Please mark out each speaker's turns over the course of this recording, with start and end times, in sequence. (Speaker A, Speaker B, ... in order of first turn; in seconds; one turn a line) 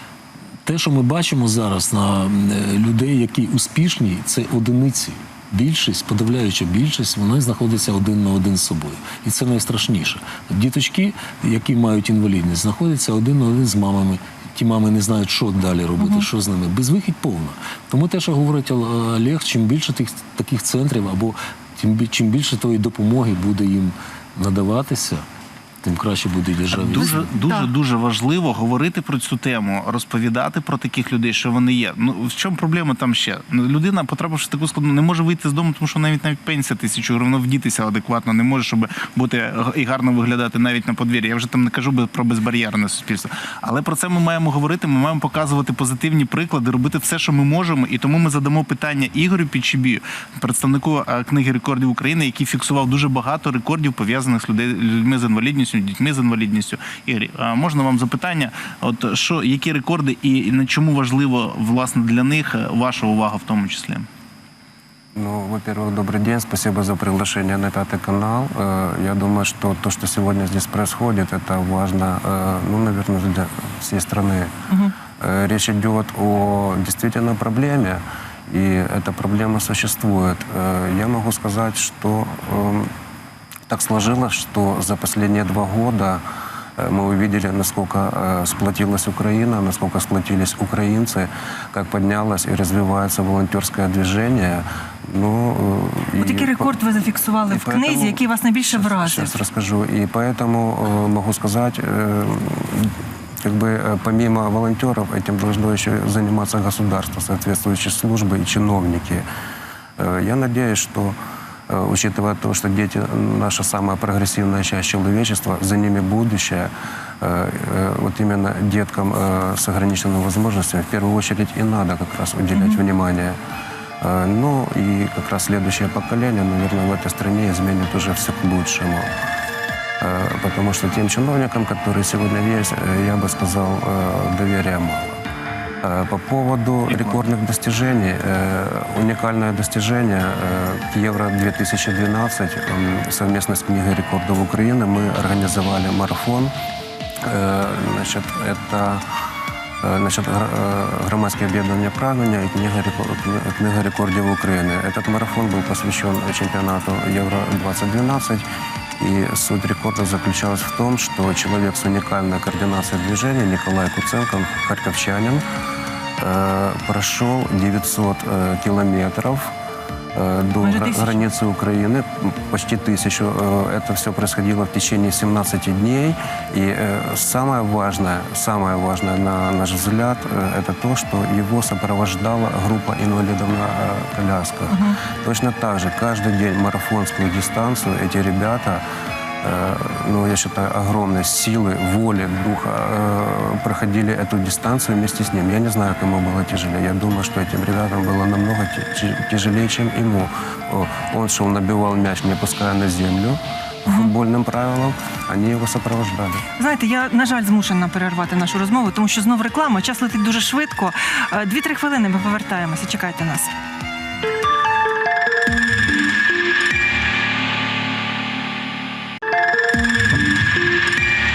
Speaker A: 0.7-25.2
Speaker B: 16.0-16.3
Speaker A: 25.8-27.3
Speaker C: 26.7-64.1
Speaker B: 27.0-27.7
Speaker D: 65.2-74.5
Speaker B: 74.7-74.9
Speaker D: 75.2-82.9
Speaker D: 83.7-86.2
Speaker D: 86.8-96.8
Speaker B: 96.2-99.3
Speaker D: 97.5-109.3
Speaker D: 110.0-111.2
Speaker D: 111.7-123.4
Speaker B: 122.5-122.8
Speaker D: 124.0-129.1
Speaker D: 130.0-135.2
Speaker D: 135.8-146.5
Speaker D: 147.2-149.1
Speaker D: 149.8-158.4
Speaker D: 159.0-165.4
Speaker D: 166.2-169.5
Speaker D: 170.1-188.8
Speaker B: 170.6-171.3
Speaker B: 184.7-185.0
Speaker D: 189.4-206.4
Speaker B: 206.6-213.5